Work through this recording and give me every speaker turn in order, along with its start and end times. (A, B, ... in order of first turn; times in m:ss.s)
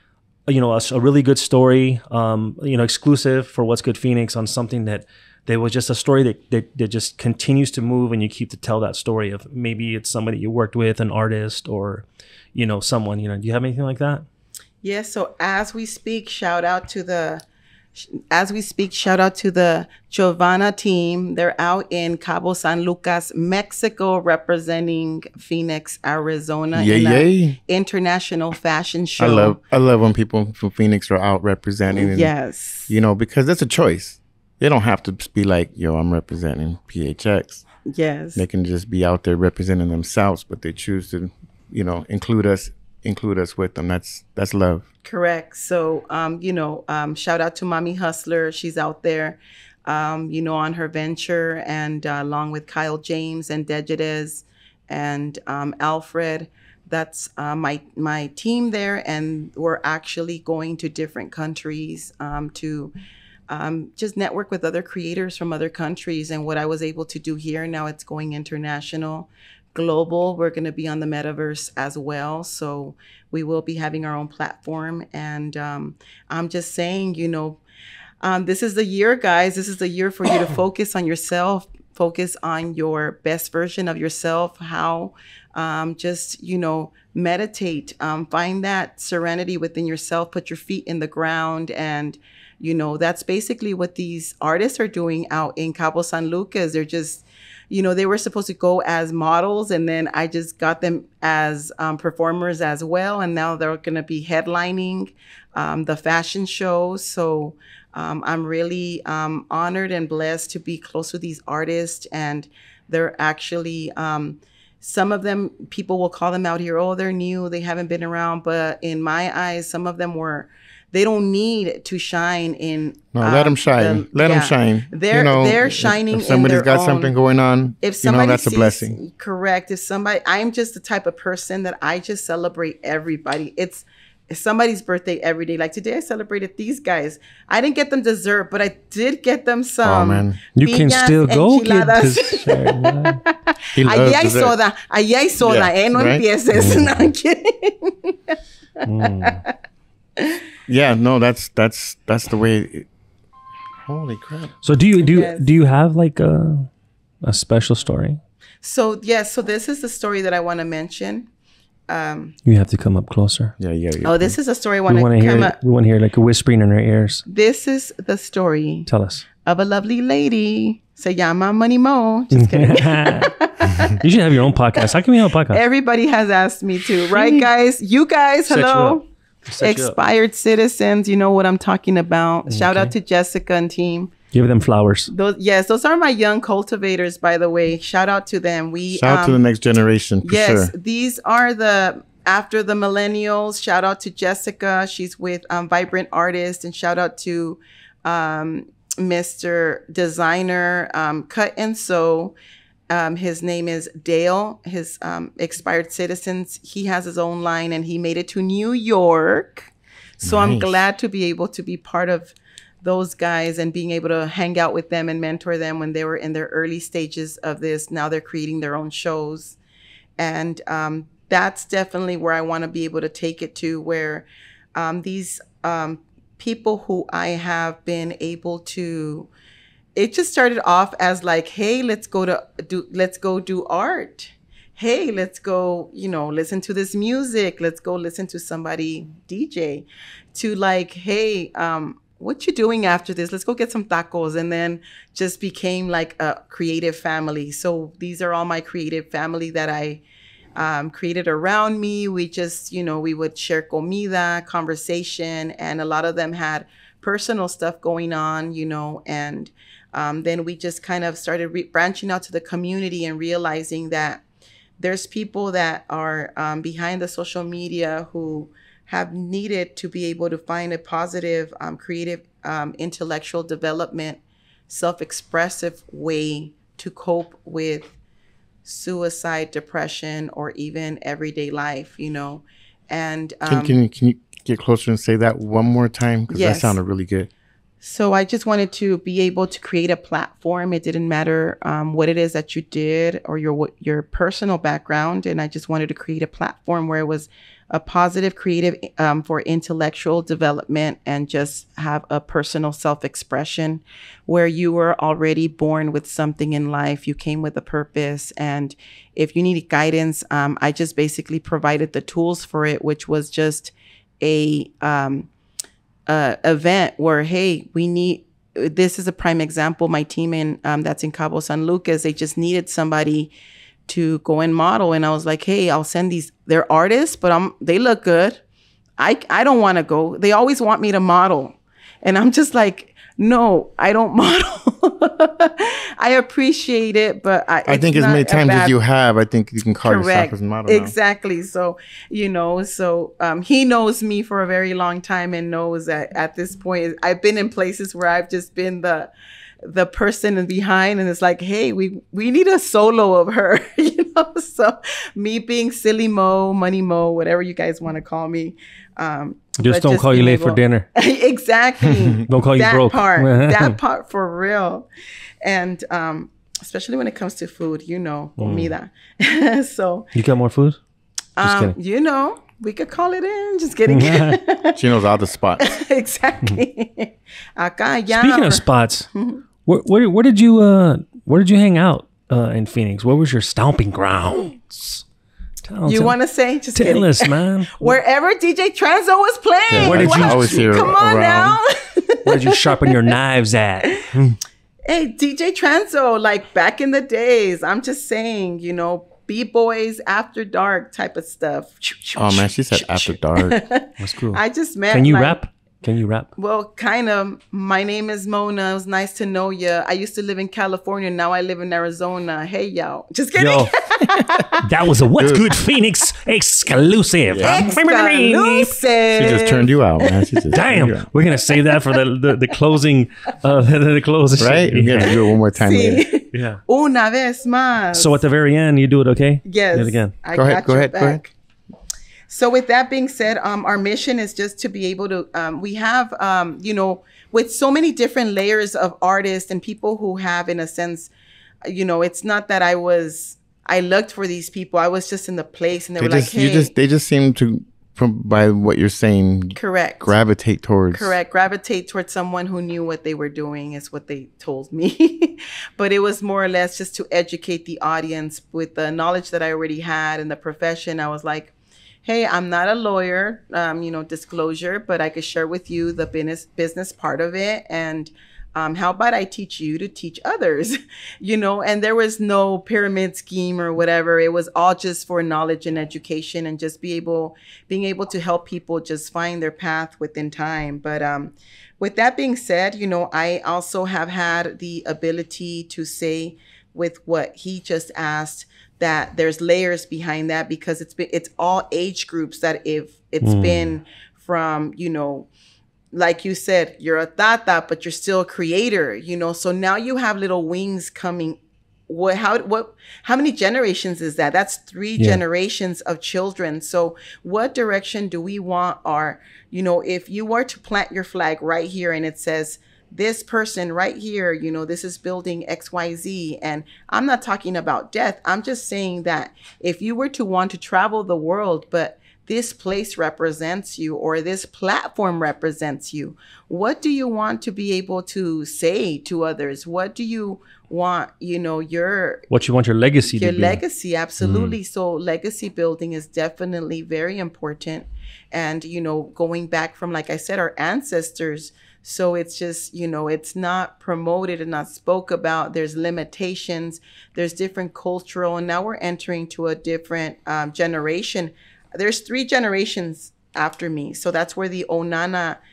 0:00.5-0:14.2 A
0:14.8-0:17.4 B
0:18.0-0:29.6 B
0:26.7-0:27.6 C
0:29.2-0:32.3 C
0:31.9-0:32.9 B
0:32.9-0:37.6 C
0:37.8-0:38.4 B
0:38.4-0:44.8 C
0:45.0-1:02.9 B
1:03.5-1:17.6 B
1:18.2-2:07.1 B
2:03.2-2:09.0 C
2:07.8-2:29.6 B
2:19.8-2:20.4 C
2:20.6-2:23.2 A
2:23.8-2:24.6 C
2:25.4-2:26.2 C
2:26.5-2:27.1 A
2:28.8-2:29.4 A
2:30.2-2:30.4 B
2:30.7-2:32.9 C
2:33.8-2:34.6 C
2:34.6-2:36.7 A
2:35.0-2:35.5 B
2:37.2-2:38.2 A
2:38.6-2:41.3 B
2:41.9-2:42.4 B
2:42.5-2:43.5 A
2:43.6-2:44.4 C
2:44.0-2:45.6 B
2:44.9-2:47.2 A
2:47.3-2:48.9 B
2:48.9-2:49.3 A
2:49.4-2:54.0 B
2:52.3-2:55.6 A
2:55.5-2:59.1 B
2:57.0-2:57.5 A
2:58.5-3:00.0 A
2:59.6-3:04.1 B
3:02.5-3:02.9 A
3:04.3-3:05.1 A
3:05.1-3:09.4 B
3:08.9-3:10.7 C
3:10.2-3:22.4 B
3:22.9-3:39.6 B
3:30.2-3:30.8 C
3:40.2-3:49.3 B
3:50.0-4:10.0 B
4:10.6-4:24.2 B
4:24.8-4:38.0 B
4:38.6-4:43.8 B
4:43.5-4:47.3 C
4:46.3-4:46.8 B
4:47.8-5:15.3 B
5:16.1-5:23.3 B
5:23.9-5:28.4 B
5:29.0-5:38.8 B
5:37.7-5:40.9 C
5:39.8-5:49.1 B
5:49.6-6:04.9 B
5:59.6-6:00.9 A
6:02.2-6:03.8 A
6:05.4-6:10.1 B
6:08.4-6:08.7 A
6:10.2-6:10.8 A
6:11.4-6:14.8 B
6:11.4-6:11.8 A
6:13.9-6:14.4 A
6:14.8-6:15.7 C
6:15.6-6:19.4 B
6:18.1-6:19.1 A
6:19.7-6:25.0 A
6:25.6-6:26.2 A
6:25.9-6:33.0 B
6:26.8-6:28.0 A
6:29.7-6:31.6 C
6:29.8-6:30.9 A
6:32.2-6:34.4 A
6:33.8-6:34.1 B
6:34.9-6:45.4 B
6:42.2-6:43.6 C
6:44.0-6:46.3 A
6:46.4-6:54.7 B
6:53.4-6:53.7 A
6:54.5-6:58.8 A
6:55.2-6:55.6 C
6:57.3-6:57.7 C
6:57.4-7:00.2 B
6:59.2-7:01.1 C
7:00.5-7:05.2 A
7:04.4-7:06.0 C
7:05.5-7:08.2 B
7:06.3-7:06.6 A
7:07.9-7:10.1 A
7:09.5-7:11.3 B
7:10.4-7:11.2 C
7:12.3-7:21.1 B
7:21.6-7:26.7 B
7:26.0-7:31.2 C
7:29.6-7:30.1 B
7:30.9-7:41.5 B
7:42.0-8:15.3 B
8:13.2-8:13.8 A
8:15.9-8:52.3 B
8:52.3-8:53.6 A
8:53.1-9:15.4 B